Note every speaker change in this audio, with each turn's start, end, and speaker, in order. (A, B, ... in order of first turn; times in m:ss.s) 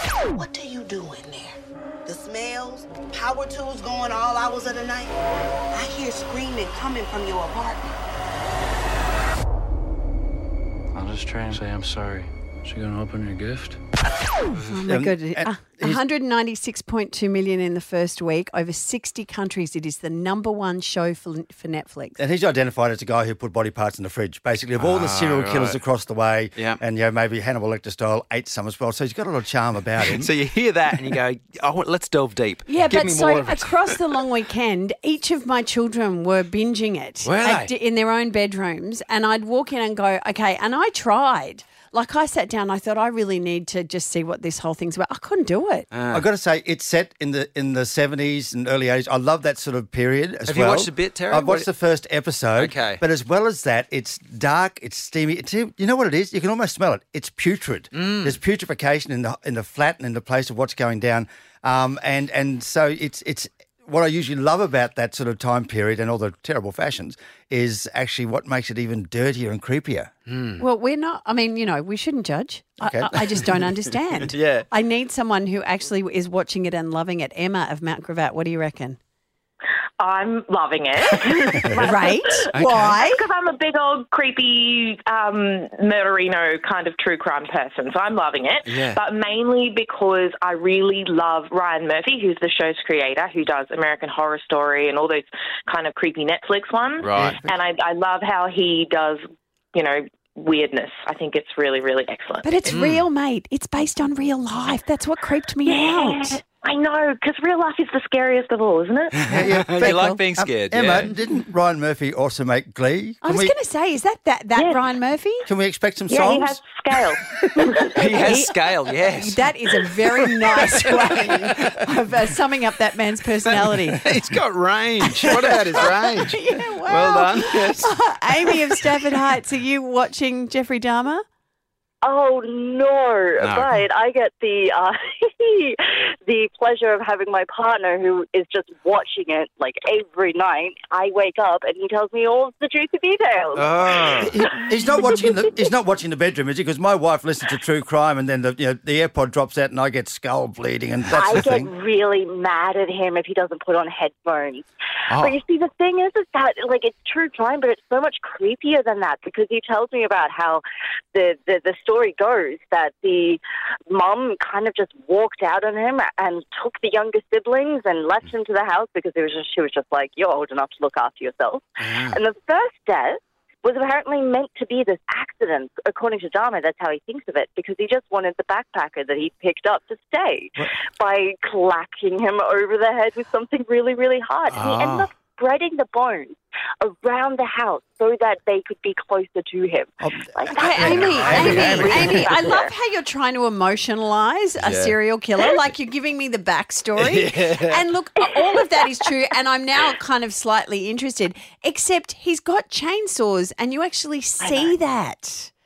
0:00.3-0:05.2 A
0:05.7-0:07.9 A
0:10.9-0:13.8 B
0:14.6-0:22.2 C
0:14.8-0:16.0 D
0:22.2-0:30.3 D
0:24.8-0:25.8 E
0:30.1-0:33.6 E
0:32.7-0:45.9 C
0:37.3-0:37.7 E
0:45.9-0:46.2 E
0:46.1-1:10.1 D
0:50.4-0:51.7 E
0:52.6-0:53.0 E
1:10.6-1:19.0 C
1:12.8-1:13.5 D
1:20.0-1:22.2 F
1:21.8-1:23.2 C
1:22.9-1:39.2 F
1:37.0-1:37.3 A
1:37.2-1:37.5 D
1:39.7-1:42.6 F
1:42.4-1:46.4 C
1:42.7-1:43.0 E
1:45.6-1:49.2 F
1:49.3-1:53.5 D
1:49.3-1:51.1 E
1:49.3-1:50.3 A
1:49.7-1:50.2 C
1:53.2-1:55.5 C
1:54.5-1:54.8 F
1:55.4-1:56.6 D
1:56.1-1:58.3 F
1:57.9-2:04.2 C
1:58.0-1:59.3 A
1:58.6-1:59.0 E
2:04.1-2:07.9 E
2:05.0-2:11.2 C
2:05.3-2:06.1 A
2:12.0-2:24.5 G
2:23.8-2:31.7 D
2:31.1-2:40.6 G
2:35.1-2:35.4 E
2:41.1-3:12.7 G
3:04.6-3:05.0 A
3:10.0-3:12.4 D
3:10.5-3:25.5 C
3:17.2-3:17.8 A
3:24.4-3:24.7 G